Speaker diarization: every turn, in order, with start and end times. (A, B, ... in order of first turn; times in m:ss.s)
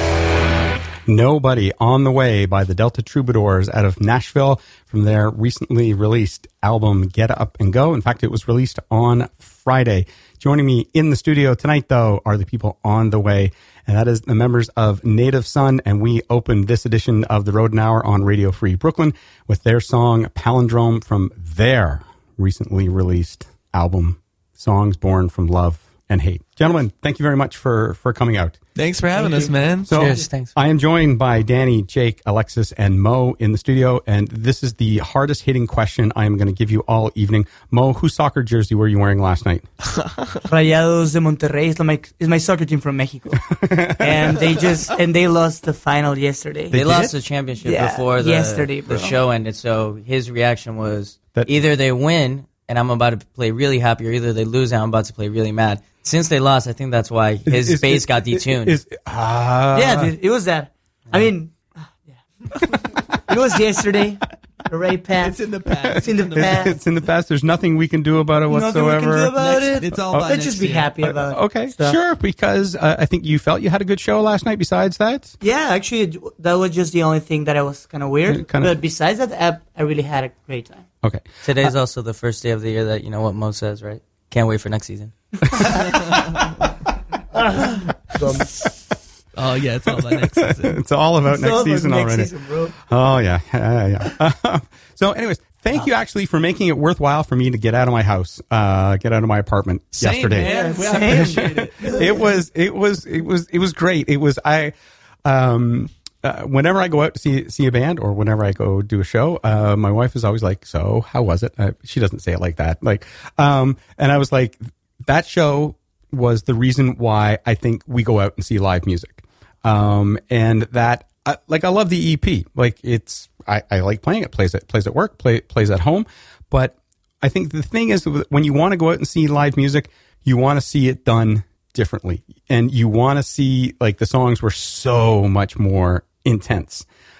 0:01.1-0:28.6 A
0:28.8-0:30.2 B
0:29.8-0:39.7 A
0:29.9-0:30.5 C
0:40.1-0:40.4 B
0:40.5-0:46.8 D
0:43.6-0:44.1 A
0:46.7-0:47.1 A
0:46.7-0:58.8 C
0:47.6-0:49.2 D
0:57.5-1:00.1 A
0:59.7-1:05.4 D
1:05.2-1:06.8 B
1:06.0-1:06.7 D
1:06.3-1:09.3 A
1:08.5-1:12.0 D
1:09.4-1:10.9 B
1:11.0-1:15.3 A
1:15.4-1:20.9 D
1:18.3-1:18.8 A
1:21.0-1:21.7 A
1:21.4-1:25.1 C
1:27.3-1:28.7 D
1:29.3-1:30.8 B
1:29.9-1:32.3 A
1:31.3-1:32.8 D
1:32.8-1:40.5 A
1:40.0-1:42.2 B
1:40.4-1:42.2 D
1:41.0-1:44.7 A
1:45.2-2:16.8 A